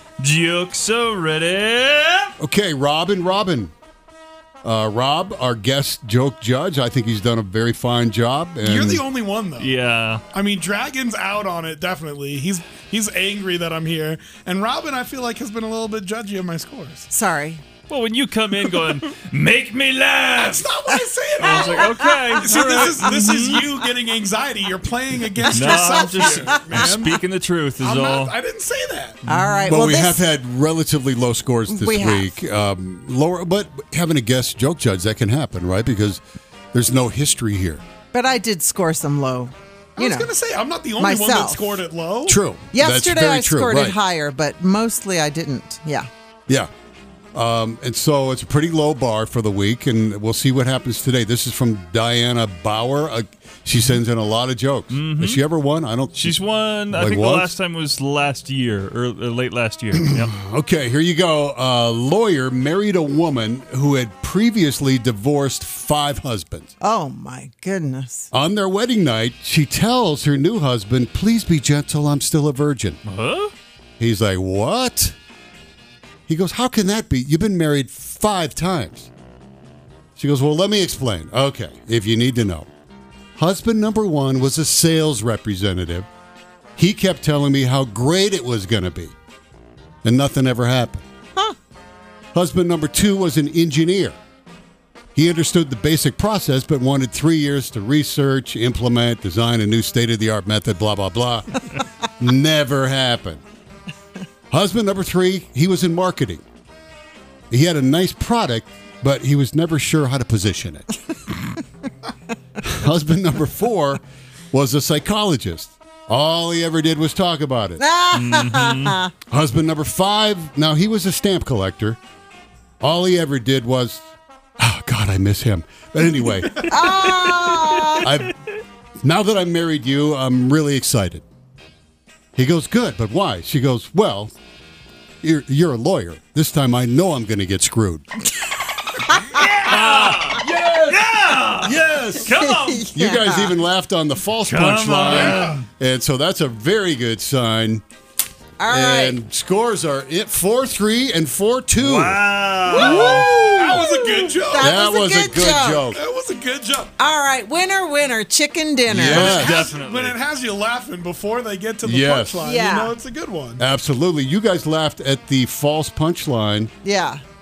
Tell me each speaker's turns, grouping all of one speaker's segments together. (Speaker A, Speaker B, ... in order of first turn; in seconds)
Speaker A: 0.2-2.3, 9.6-10.2, 17.9-20.7, 21.4-23.7, 25.4-28.3, 54.9-55.4, 56.1-60.3, 73.0-73.5, 118.1-119.0, 139.3-142.9, 144.4-145.6, 151.8-153.4, 159.0-160.2
Speaker B: 2.4-3.7, 4.6-9.0, 29.6-36.2, 36.7-37.8, 42.3-44.0, 47.3-57.5, 60.0-66.7, 68.3-73.0, 74.0-75.1, 76.3-79.1, 80.2-82.7, 83.4-86.1, 86.8-89.1, 90.0-91.0, 92.3-94.2, 95.1-101.6, 102.2-103.4, 104.5-106.4, 107.5-110.9, 112.6-117.8, 119.3-122.0, 122.8-124.0, 124.6-126.7, 128.0-128.3, 129.0-131.2, 132.3-134.3, 135.2-138.1, 139.7-142.3, 142.9-147.8, 148.7-152.2, 154.6-156.0, 158.9-159.7, 161.8-162.4, 163.6-166.7
Speaker C: 8.6-9.7, 10.3-17.1, 20.4-21.6, 22.4-27.2, 27.8-29.2, 40.0-42.4, 145.1-145.5, 152.7-154.7, 155.9-156.9, 159.1-163.6
Speaker D: 17.1-17.6, 20.9-22.9, 25.5-25.9, 29.2-30.3, 31.7-32.3, 38.1-40.3, 41.0-41.8, 42.7-46.1, 66.8-68.3, 117.8-119.1, 126.7-128.1, 142.3-143.6, 148.6-149.2, 152.7-155.9, 157.0-159.5, 162.4-162.9, 166.8-167.2